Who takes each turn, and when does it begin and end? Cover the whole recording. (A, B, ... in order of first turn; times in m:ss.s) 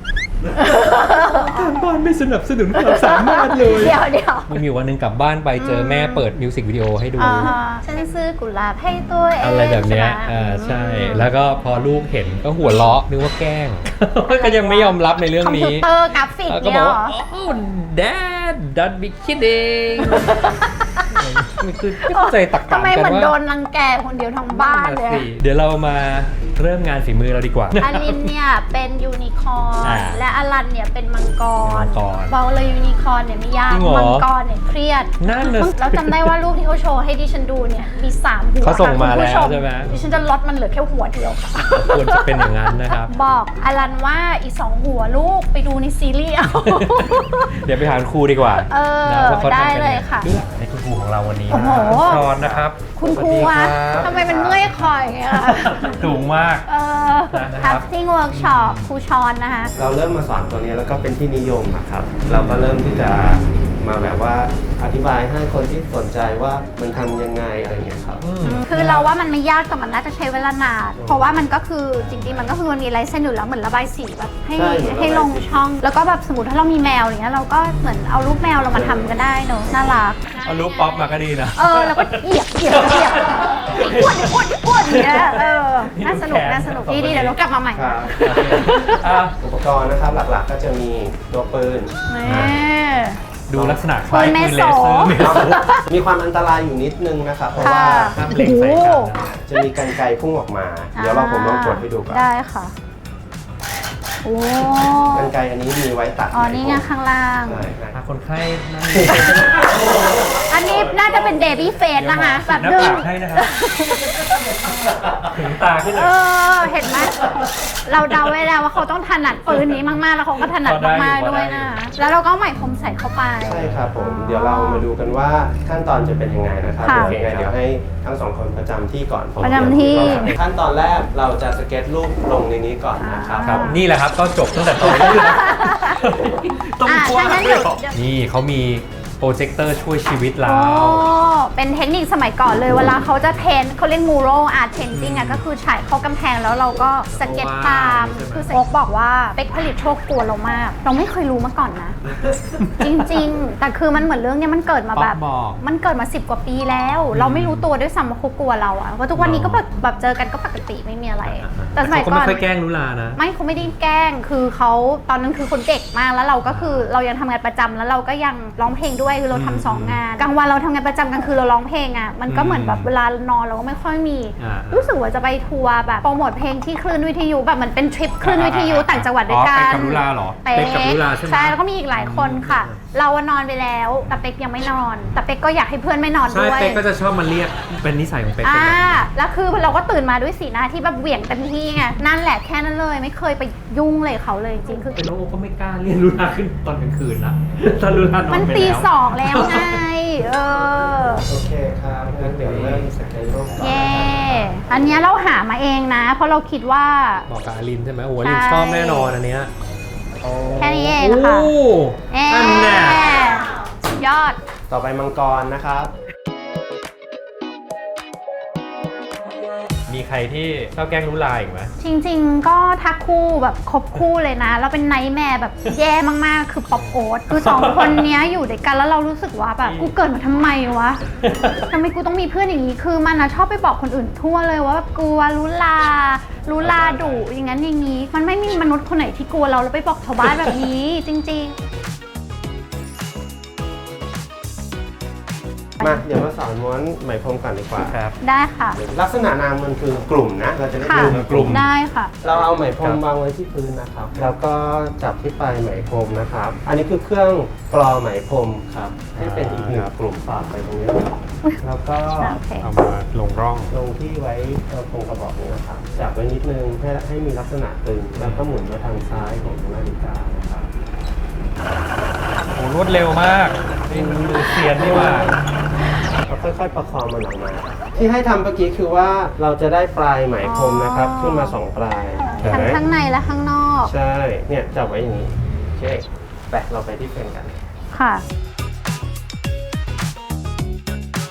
0:00.5-0:07.6 A
0:00.5-0:01.8 B
0:02.8-0:04.6 B
0:05.6-0:06.3 B
0:07.2-0:11.3 B
0:09.4-0:15.9 A
0:14.3-0:17.1 B
0:16.4-0:23.4 A
0:20.0-0:21.1 B
0:22.0-0:25.3 B
0:24.5-0:28.3 A
0:27.8-0:47.6 B
0:29.8-0:30.2 A
0:31.6-0:32.4 A
0:33.7-0:34.3 A
0:35.2-0:36.4 A
0:38.6-0:39.9 A
0:41.7-0:43.1 A
0:46.6-0:56.6 A
0:48.6-0:50.3 B
0:51.5-0:52.3 B
0:51.7-0:54.7 C
0:52.9-0:56.0 B
0:56.6-0:59.7 B
0:57.3-0:58.9 A
0:59.7-1:08.3 C
1:02.2-1:02.7 A
1:08.2-1:09.1 A
1:08.4-1:29.1 B
1:11.0-1:11.4 C
1:11.9-1:12.6 A
1:14.5-1:15.6 C
1:18.7-1:19.2 C
1:20.4-1:27.4 A
1:27.7-1:28.7 C
1:28.2-1:29.4 A
1:29.4-1:31.9 C
1:32.1-1:33.2 B
1:32.2-1:32.6 A
1:33.5-1:35.8 A
1:33.5-1:33.8 C
1:34.1-1:35.9 B
1:35.2-1:42.2 C
1:37.5-1:39.4 A
1:37.6-1:39.2 B
1:40.9-1:42.7 B
1:44.2-1:45.3 B
1:45.0-1:46.9 C
1:46.3-1:47.6 B
1:47.4-1:48.0 C
1:47.9-1:53.5 A
1:50.4-1:54.8 B
1:54.2-1:58.8 A
1:55.9-1:57.2 B
1:57.8-2:04.9 B
1:59.4-2:01.8 A
2:03.4-2:13.6 C
2:03.5-2:04.0 A
2:06.8-2:07.1 B
2:06.9-2:07.5 A
2:09.4-2:10.3 B
2:13.0-2:13.8 B
2:13.4-2:21.1 A
2:14.8-2:16.0 B
2:16.8-2:18.0 B
2:20.4-2:32.0 B
2:24.9-2:25.4 A
2:27.1-2:28.6 A
2:32.6-2:33.2 A
2:32.8-2:42.4 B
2:34.9-2:35.6 A
2:37.1-2:37.7 A
2:39.1-2:39.6 A
2:41.2-2:43.7 A
2:43.2-3:06.8 B
2:46.4-2:46.9 A
2:49.3-2:50.0 A
2:52.3-2:52.9 A
2:54.4-2:54.9 A
2:58.2-3:02.8 A
3:06.3-3:09.1 A
3:08.4-3:15.0 B
3:14.8-3:19.9 A
3:18.3-3:21.3 B
3:21.3-3:25.0 C
3:22.0-3:23.9 A
3:23.6-3:27.3 B
3:27.3-3:29.5 A
3:28.2-3:29.1 B
3:30.2-3:33.1 A
3:30.6-3:31.5 B
3:32.1-3:34.4 B
3:34.7-3:35.9 C
3:39.9-3:41.7 A
3:41.8-3:51.0 B
3:46.7-3:48.1 A
3:49.6-3:49.9 A
3:51.2-3:51.7 A
3:51.6-4:01.6 B
3:56.6-3:57.3 A
4:00.2-4:00.6 A
4:05.8-4:08.0 C
4:07.8-4:08.2 A
4:08.2-4:08.8 B
4:08.7-4:11.7 C
4:10.8-4:12.1 B
4:10.9-4:11.7 A
4:12.2-4:22.4 C
4:12.8-4:13.0 A
4:19.1-4:19.9 A
4:22.2-4:22.7 B
4:22.5-4:23.8 A
4:23.7-4:30.7 C
4:28.2-4:28.4 A
4:32.5-4:35.4 A
4:33.9-4:35.4 C
4:36.2-4:42.8 C
4:40.4-4:41.6 B
4:42.4-4:43.9 B
4:43.8-4:47.6 C
4:47.9-4:48.2 B